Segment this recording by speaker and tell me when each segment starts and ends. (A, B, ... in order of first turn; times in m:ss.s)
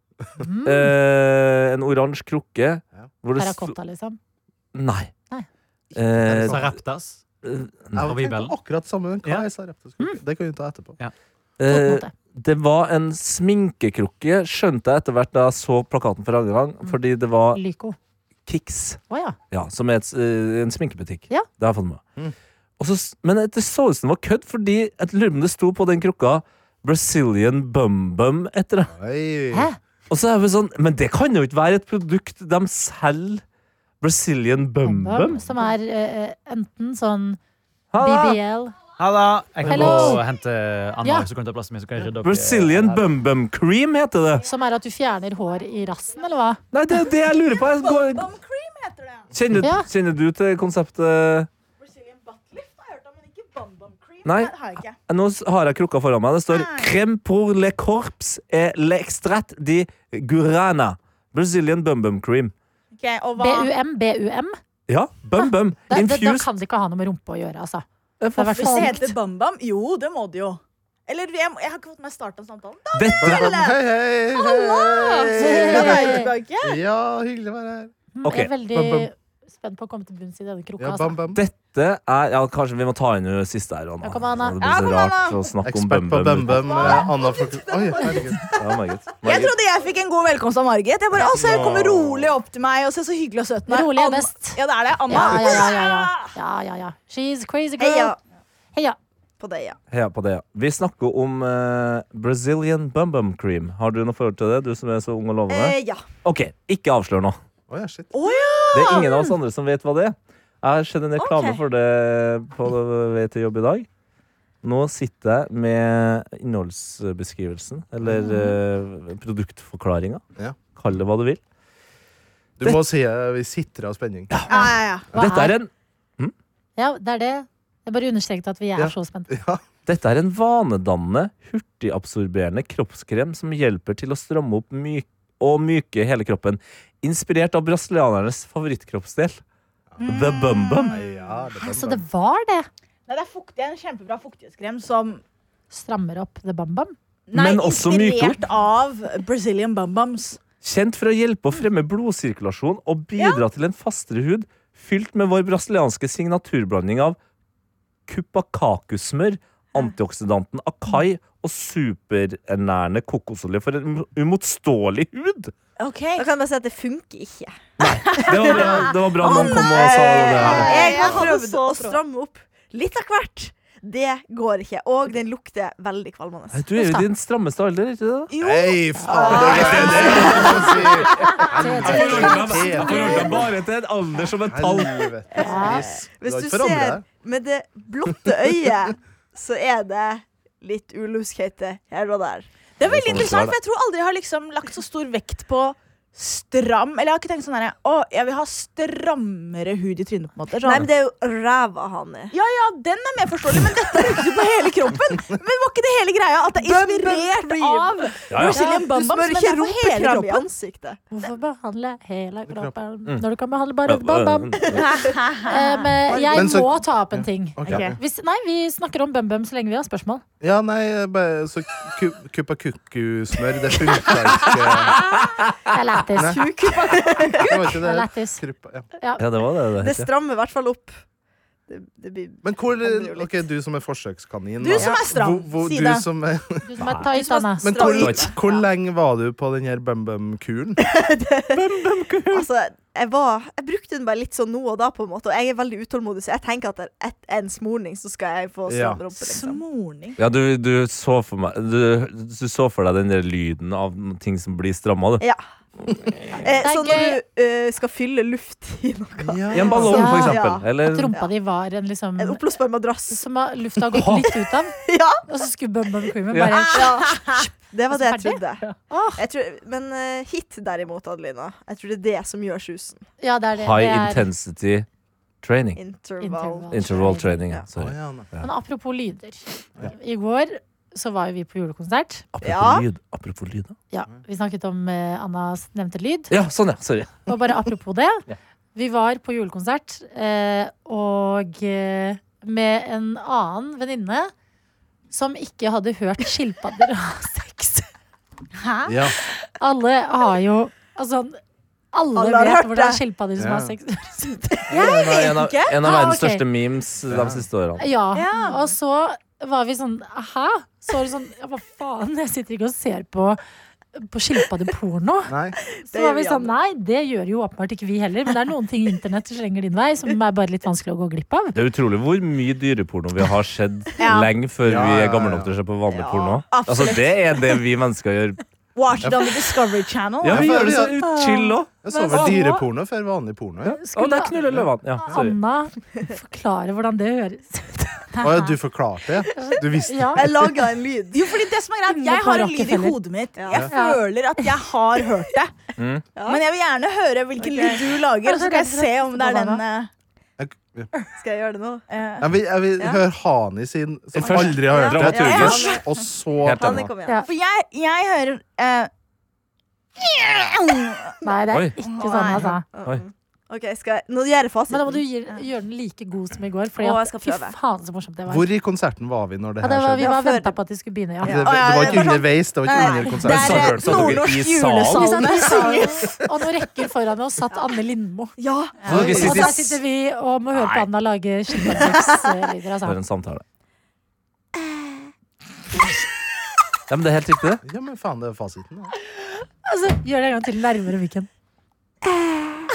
0:00.4-0:00.9 A
0:00.6-0:03.7 B
0:03.3-0:04.2 A
0:04.7-0:05.1 B
0:05.9-0:06.7 C
0:05.9-0:06.6 B
0:06.4-0:07.2 D
0:07.4-0:08.0 B
0:08.0-0:11.0 C
0:08.0-0:08.5 D
0:11.6-0:17.6 B
0:11.7-0:12.1 A
0:17.5-0:18.0 A
0:18.4-0:19.0 B
0:19.1-0:19.4 A
0:19.5-0:22.0 B
0:22.8-0:28.9 B
0:28.9-0:29.7 C
0:29.5-0:29.8 A
0:30.1-0:33.4 B
0:34.0-0:35.4 B
0:34.8-0:37.4 A
0:37.9-0:38.4 B
0:38.0-0:38.8 A
0:39.0-0:43.0 D
0:39.6-0:40.2 A
0:39.7-0:40.2 B
0:41.0-0:41.3 A
0:42.2-0:44.4 B
0:44.4-0:46.6 A
0:46.7-0:48.3 B
0:47.4-0:49.3 E
0:49.3-0:51.5 B
0:49.6-0:49.9 A
0:51.8-0:55.0 E
0:54.2-1:02.5 B
0:56.5-0:56.9 E
1:03.0-1:03.7 E
1:03.4-1:04.5 A
1:04.9-1:06.5 B
1:05.4-1:09.1 A
1:08.2-1:09.0 B
1:08.5-1:13.8 E
1:12.9-1:13.6 B
1:13.2-1:17.9 C
1:14.3-1:16.8 E
1:15.4-1:16.3 A
1:18.1-1:21.2 A
1:18.2-1:18.5 B
1:18.7-1:19.1 C
1:20.8-1:21.4 C
1:21.3-1:27.0 B
1:24.0-1:24.6 A
1:24.6-1:25.6 E
1:25.6-1:28.4 C
1:26.5-1:28.6 E
1:28.6-1:29.5 B
1:29.2-1:36.3 E
1:31.2-1:32.0 B
1:33.7-1:38.1 A
1:37.8-1:38.2 F
1:39.4-1:39.8 F
1:39.9-1:47.4 B
1:45.5-1:46.0 F
1:47.7-1:48.1 C
1:48.1-1:49.3 E
1:48.7-1:53.9 B
1:51.2-1:51.6 F
1:54.6-2:00.2 B
1:58.0-1:58.3 C
1:58.2-1:58.5 A
2:00.8-2:01.4 B
2:02.6-2:04.3 C
2:04.3-2:06.3 B
2:04.5-2:05.0 E
2:04.5-2:05.5 A
2:06.8-2:09.3 A
2:08.8-2:09.6 C
2:09.8-2:19.4 B
2:19.9-2:20.2 C
2:20.0-2:21.0 E
2:20.0-2:20.9 B
2:20.8-2:22.0 C
2:21.6-2:22.7 A
2:23.1-2:25.2 E
2:25.7-2:26.9 A
2:27.3-2:30.4 E
2:27.3-2:28.4 B
2:30.6-2:37.2 B
2:33.2-2:33.4 E
2:38.1-2:45.5 B
2:45.8-2:46.2 E
2:46.2-2:47.5 F
2:47.8-2:51.2 B
2:48.0-2:52.0 E
2:48.2-2:56.6 F
2:50.4-2:51.3 C
2:56.5-2:58.3 B
2:56.8-2:57.0 A
2:58.3-2:59.9 E
2:58.4-3:03.5 C
2:58.9-3:03.4 A
2:59.2-3:00.7 F
2:59.3-3:05.1 B
3:04.4-3:07.0 C
3:05.3-3:12.5 F
3:05.4-3:05.8 A
3:12.8-3:20.9 E
3:12.8-3:13.6 B
3:20.6-3:22.3 F
3:22.3-3:30.5 E
3:26.6-3:31.0 F
3:28.3-3:28.6 B
3:28.5-3:28.8 A
3:31.1-3:34.6 A
3:32.5-3:32.7 C
3:33.9-3:34.8 B
3:34.6-3:35.6 F
3:34.8-3:35.5 E
3:35.4-3:40.2 A
3:36.1-3:36.6 F
3:36.3-3:37.9 C
3:37.6-3:37.9 E
3:40.4-3:45.0 C
3:45.7-3:46.4 A
3:46.2-3:48.9 C
3:46.2-3:47.5 F
3:47.7-3:48.4 A
3:49.2-3:50.1 B
3:49.8-3:50.9 F
3:51.7-3:53.4 F
3:52.4-3:57.0 C
3:54.6-3:56.0 E
3:56.6-3:58.0 A
3:57.1-3:58.6 F
3:57.6-4:00.8 C
3:58.0-3:58.3 B
4:00.8-4:01.6 F
4:01.5-4:02.4 C
4:02.3-4:09.6 F
4:08.7-4:09.0 C
4:09.2-4:10.2 E
4:10.2-4:15.2 B
4:16.4-4:21.3 F
4:16.4-4:17.2 A
4:19.2-4:20.4 C
4:19.5-4:21.1 B
4:19.9-4:22.4 A
4:22.2-4:23.2 F
4:23.1-4:27.1 A
4:23.9-4:24.3 B
4:24.8-4:25.2 F
4:26.3-4:26.8 B
4:26.7-4:28.6 F
4:27.9-4:29.2 A
4:29.2-4:33.0 F
4:33.2-4:34.3 A
4:33.6-4:34.8 B
4:35.4-4:35.8 B
4:35.8-4:36.7 F
4:36.2-4:37.4 A
4:36.7-4:38.5 B
4:37.8-4:38.3 C
4:38.4-4:42.3 A
4:42.3-4:43.7 B
4:42.4-4:42.8 F
4:43.9-4:46.3 A
4:46.3-4:47.2 B
4:47.3-4:48.2 A
4:48.7-4:54.3 A
4:55.1-4:57.8 A
4:58.6-4:59.0 E
4:58.9-4:59.2 C
4:59.4-5:01.4 A
5:01.9-5:05.1 A
5:02.2-5:03.0 F
5:03.4-5:03.7 C
5:04.3-5:05.0 F
5:04.7-5:07.8 B
5:05.0-5:05.8 E
5:05.8-5:06.4 A
5:07.1-5:07.4 C
5:07.8-5:13.4 A
5:08.2-5:08.6 F
5:08.2-5:08.6 E
5:14.0-5:15.3 A
5:15.3-5:15.6 C
5:15.8-5:16.5 F
5:15.9-5:21.5 A
5:21.5-5:28.4 B
5:24.0-5:24.3 E
5:24.6-5:25.5 C
5:25.9-5:26.4 F
5:26.4-5:27.6 E
5:28.7-5:30.7 E
5:29.0-5:29.3 C
5:30.2-5:31.7 B
5:30.3-5:31.0 C
5:31.1-5:32.6 A
5:31.8-5:33.8 C
5:32.1-5:32.5 E
5:33.6-5:34.4 A
5:33.9-5:35.3 B
5:35.0-5:38.2 A
5:38.2-5:40.5 C
5:39.3-5:40.2 A
5:40.1-5:41.3 F
5:41.1-5:45.5 E
5:41.9-5:43.0 A
5:43.4-5:43.7 F
5:43.7-5:44.4 A
5:45.8-5:46.0 B
5:46.1-5:46.4 F
5:46.2-5:49.9 E
5:47.4-5:48.0 F
5:48.2-5:49.6 A
5:50.4-5:50.9 C
5:51.1-5:51.9 F
5:51.9-5:52.3 E
5:52.2-5:56.9 C
5:54.2-5:55.7 B
5:54.2-5:56.0 F
5:55.2-5:55.8 E
5:56.4-5:56.9 B
5:56.5-5:57.2 F
5:57.2-5:58.9 E
6:00.0-6:01.2 E
6:01.2-6:02.6 A
6:01.9-6:05.4 F
6:02.0-6:02.5 E
6:04.7-6:08.5 A
6:06.8-6:07.6 F
6:08.3-6:10.1 C
6:09.6-6:11.4 A
6:10.0-6:10.6 F
6:11.2-6:14.4 F
6:11.2-6:13.9 C
6:11.4-6:15.9 E
6:13.2-6:15.1 B
6:14.9-6:16.2 F
6:14.9-6:23.0 A
6:18.4-6:19.6 F
6:18.8-6:19.5 C
6:18.9-6:19.8 B
6:20.5-6:20.9 B
6:21.6-6:22.1 F
6:22.8-6:23.4 B
6:26.9-6:27.6 B
6:27.6-6:28.9 C
6:29.6-6:31.3 A